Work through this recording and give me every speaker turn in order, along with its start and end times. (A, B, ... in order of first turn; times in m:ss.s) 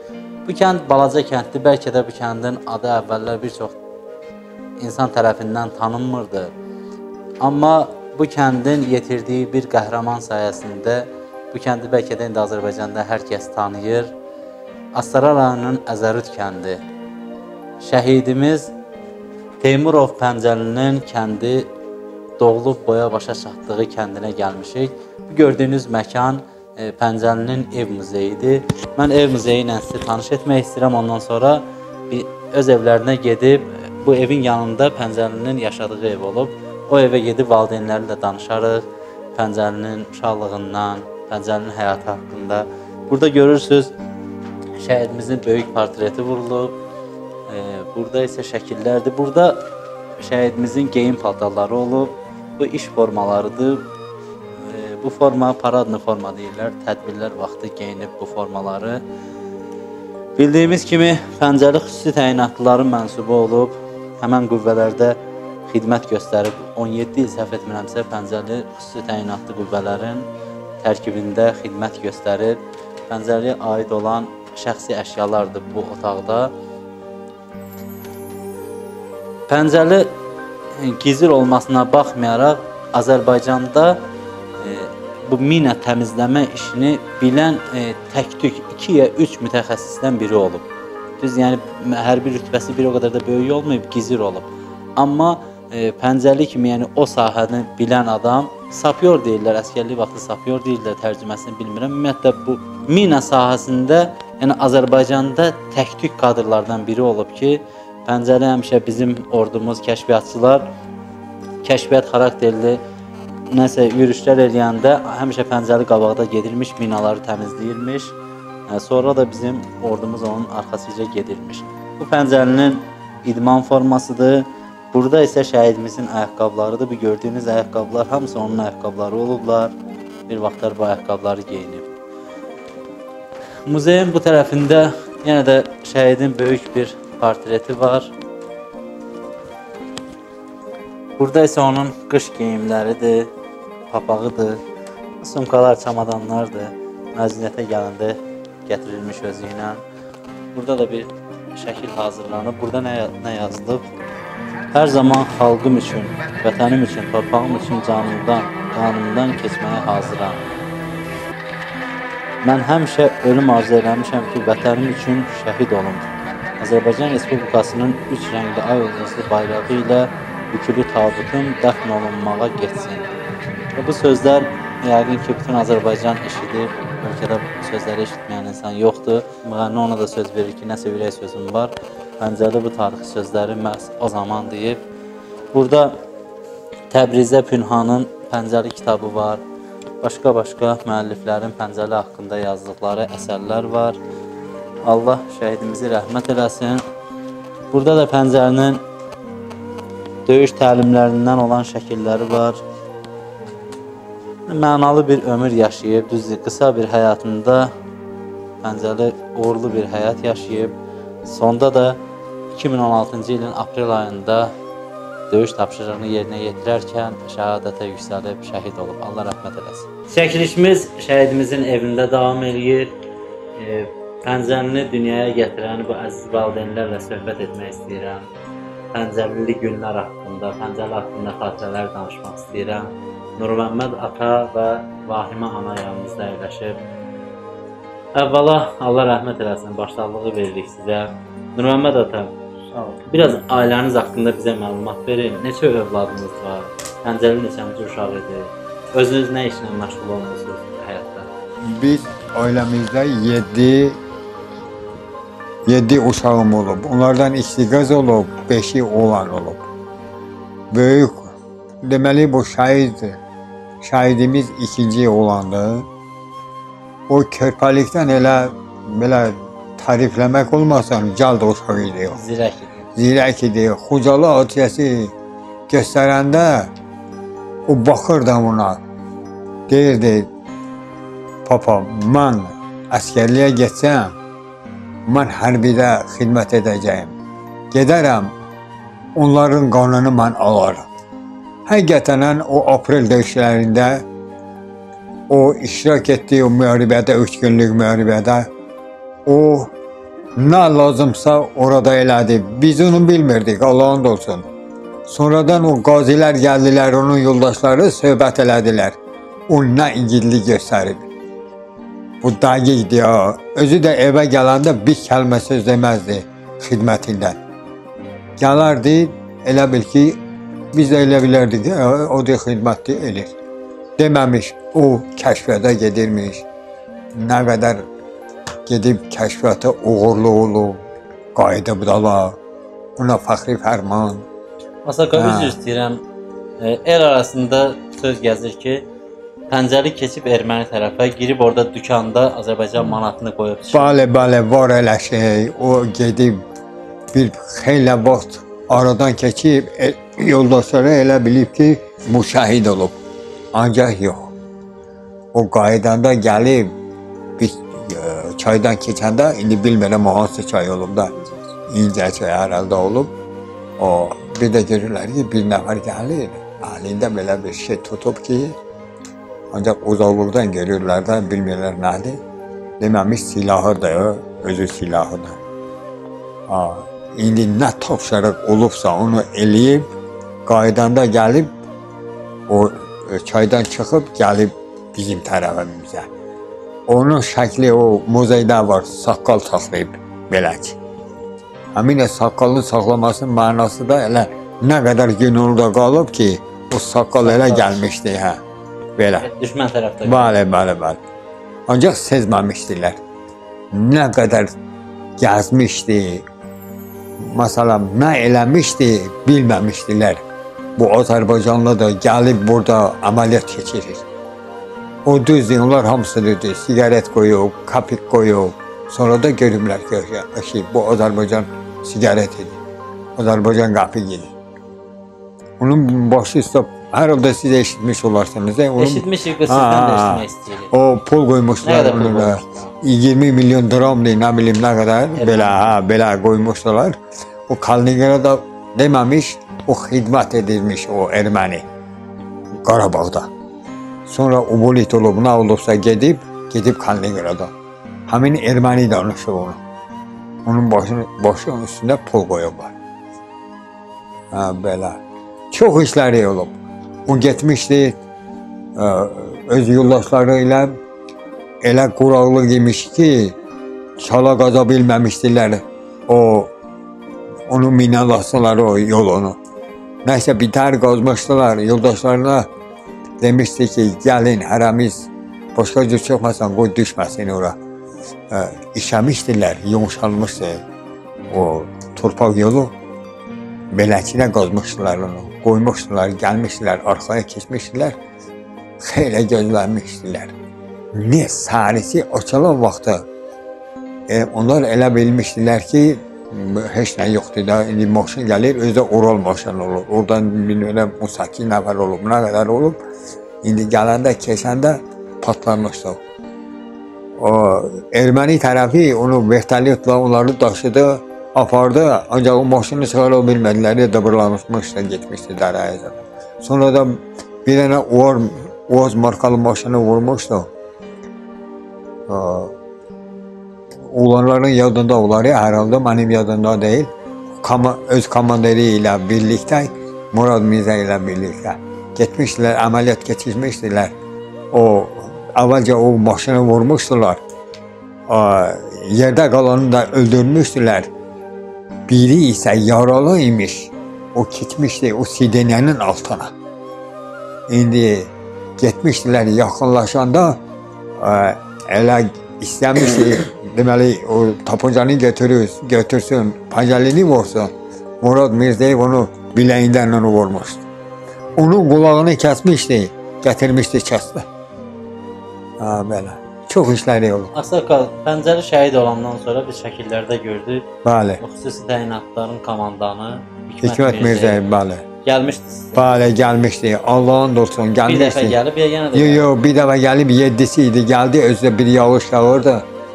0:00.4-0:03.8 A
0:04.8-0:06.5 A
0:07.4-0:14.1 A
0:14.9-0:16.8 A
0:17.8-0:18.7 A
0:19.6-0:21.7 A
0:22.4-0:38.8 A
0:39.3-0:43.9 A
0:44.8-0:46.7 A
0:47.5-0:49.6 A
0:50.2-0:53.8 A
0:54.6-0:59.0 A
1:00.4-1:05.2 A
1:05.7-1:10.3 A
1:10.8-1:12.6 A
1:13.1-1:16.5 A
1:19.5-1:20.1 A
1:20.8-1:24.0 A
1:24.6-1:30.6 A
1:31.2-1:50.6 A
1:51.6-1:52.8 A
1:53.5-1:58.1 A
1:58.7-2:09.7 A
2:10.3-2:11.9 A
2:13.7-2:18.1 A
2:21.2-2:23.3 A
2:23.9-2:24.6 A
2:25.2-2:29.8 A
2:30.5-2:33.8 A
2:34.7-2:40.4 A
2:42.4-2:46.0 A
2:46.6-2:53.0 A
2:53.8-3:04.8 A
3:05.5-3:06.0 A
3:06.9-3:09.4 A
3:10.0-3:14.0 A
3:14.8-3:16.8 A
3:17.7-3:18.8 A
3:20.2-3:22.6 A
3:24.5-3:27.7 A
3:28.6-3:30.7 A
3:31.2-3:32.0 A
3:32.5-3:34.5 A
3:35.3-3:42.9 A
3:43.6-3:48.2 A
3:48.9-3:56.8 A
3:58.2-4:02.3 A
4:02.7-4:03.0 B
4:03.0-4:11.3 A
4:11.6-4:14.0 B
4:15.7-4:19.7 B
4:20.7-4:23.2 B
4:23.8-4:25.9 B
4:27.1-4:32.2 B
4:32.1-4:32.9 A
4:33.0-4:35.1 B
4:35.7-4:36.7 B
4:37.7-4:38.8 B
4:39.7-4:40.3 B
4:41.4-4:44.1 B
4:45.1-4:47.1 B
4:47.7-4:48.3 B
4:49.2-4:50.9 B
4:51.6-4:54.0 B
4:55.3-4:58.5 B
4:59.3-4:59.7 B
5:00.4-5:04.4 B
5:05.1-5:09.0 B
5:09.5-5:11.0 B
5:12.2-5:17.4 B
5:18.4-5:20.2 B
5:20.7-5:23.3 B
5:24.0-5:26.4 B
5:27.2-5:27.8 B
5:28.7-5:30.8 B
5:31.3-5:32.4 B
5:33.0-5:34.2 B
5:34.8-5:36.0 A
5:35.1-5:35.6 B
5:36.6-5:38.8 A
5:39.5-5:44.0 A
5:43.7-5:46.4 B
5:47.1-5:52.9 B
5:53.5-5:54.3 B
5:55.3-5:56.7 B
5:57.4-6:01.1 B
6:01.7-6:03.1 B
6:03.8-6:08.6 B
6:09.5-6:12.2 B
6:12.8-6:15.4 B
6:16.5-6:19.8 B
6:20.4-6:21.5 B
6:22.5-6:26.1 B
6:26.9-6:30.8 B
6:31.7-6:38.4 B
6:37.2-6:37.9 A
6:39.0-6:39.3 B
6:39.2-6:40.3 A
6:40.0-6:41.0 B
6:41.7-6:43.0 B
6:43.7-6:44.5 B
6:45.2-6:46.2 B
6:47.2-6:50.2 B
6:50.8-6:54.1 B
6:55.0-7:02.6 B
7:03.2-7:04.3 B
7:05.6-7:17.0 B
7:08.8-7:10.7 A
7:11.6-7:12.7 A
7:15.2-7:15.6 A
7:17.5-7:21.6 B
7:22.6-7:23.3 B
7:24.1-7:27.5 B
7:28.1-7:29.6 B
7:30.4-7:32.7 B
7:34.3-7:35.0 B
7:35.5-7:36.5 B
7:37.1-7:38.0 B
7:38.8-7:40.7 B
7:41.6-7:43.4 B
7:44.0-7:46.5 B
7:47.5-7:49.4 B
7:50.0-7:52.5 B
7:53.2-7:57.5 B
7:58.3-8:00.6 B
8:01.3-8:02.7 B
8:03.7-8:07.9 B
8:08.8-8:10.3 B
8:10.9-8:13.0 B
8:14.1-8:22.8 B
8:23.4-8:26.0 B
8:27.2-8:40.5 B
8:42.1-8:42.5 B
8:43.8-8:46.9 B
8:47.4-8:53.9 B
8:54.5-8:57.2 B
8:58.1-9:00.9 B
9:01.9-9:06.3 B
9:07.5-9:10.4 B
9:11.0-9:20.7 B
9:21.4-9:24.2 B
9:25.6-9:27.3 B
9:27.3-9:30.7 A
9:30.8-9:31.2 B
9:31.2-9:34.5 A
9:33.6-9:34.8 B
9:35.0-9:35.9 A
9:35.7-9:38.4 B
9:37.8-9:39.3 A
9:38.9-9:42.6 B